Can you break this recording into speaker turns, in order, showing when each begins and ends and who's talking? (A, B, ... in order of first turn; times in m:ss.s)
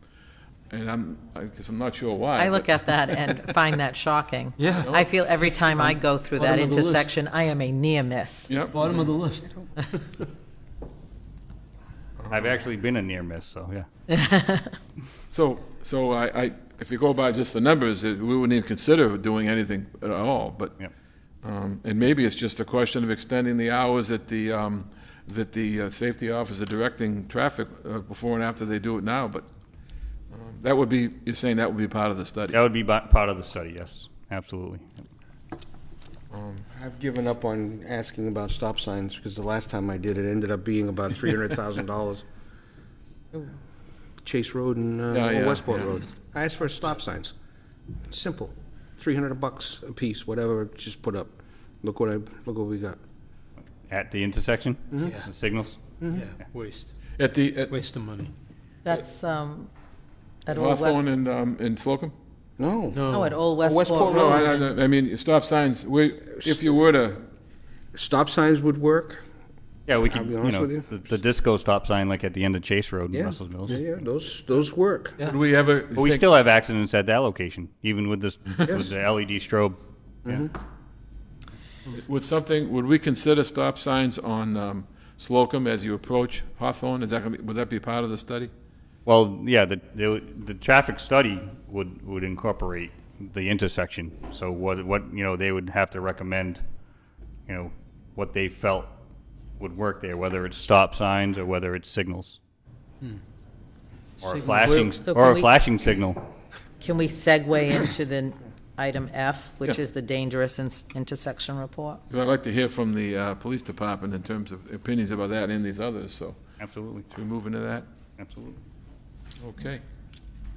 0:00.7-0:03.4 A
0:02.4-0:08.6 B
0:04.6-0:04.9 C
0:04.7-0:05.1 A
0:05.7-0:07.1 C
0:08.5-0:08.8 A
0:08.7-0:10.2 C
0:12.2-0:12.5 A
0:12.3-0:13.9 D
0:14.1-0:14.7 B
0:15.3-0:20.8 A
0:21.4-0:29.5 A
0:30.3-0:32.6 A
0:32.5-0:35.0 D
0:36.3-0:36.6 A
0:36.7-0:42.2 E
0:44.2-0:47.3 E
0:45.1-0:45.9 A
0:48.0-0:53.0 E
0:53.9-0:55.8 D
0:54.9-0:55.2 E
0:55.0-0:55.3 C
0:56.0-0:56.3 E
0:56.0-0:56.9 C
0:57.2-0:57.8 A
0:57.7-0:58.3 C
0:58.8-0:59.7 B
1:00.4-1:01.0 B
1:00.5-1:02.1 A
1:02.6-1:04.6 E
1:02.9-1:03.5 C
1:03.1-1:04.7 B
1:04.1-1:07.2 A
1:07.9-1:09.2 E
1:09.9-1:13.9 D
1:10.0-1:10.9 E
1:13.1-1:15.2 E
1:15.2-1:16.3 A
1:15.9-1:19.8 D
1:20.2-1:20.5 E
1:21.9-1:28.5 A
1:29.0-1:36.6 D
1:37.5-1:39.0 D
1:39.6-1:42.4 D
1:44.2-1:46.2 D
1:44.2-1:45.0 C
1:45.1-1:45.5 B
1:46.8-1:52.0 B
1:52.1-1:56.4 A
1:56.6-1:57.0 D
1:57.1-1:57.9 A
1:58.2-1:58.6 D
1:59.4-1:59.8 A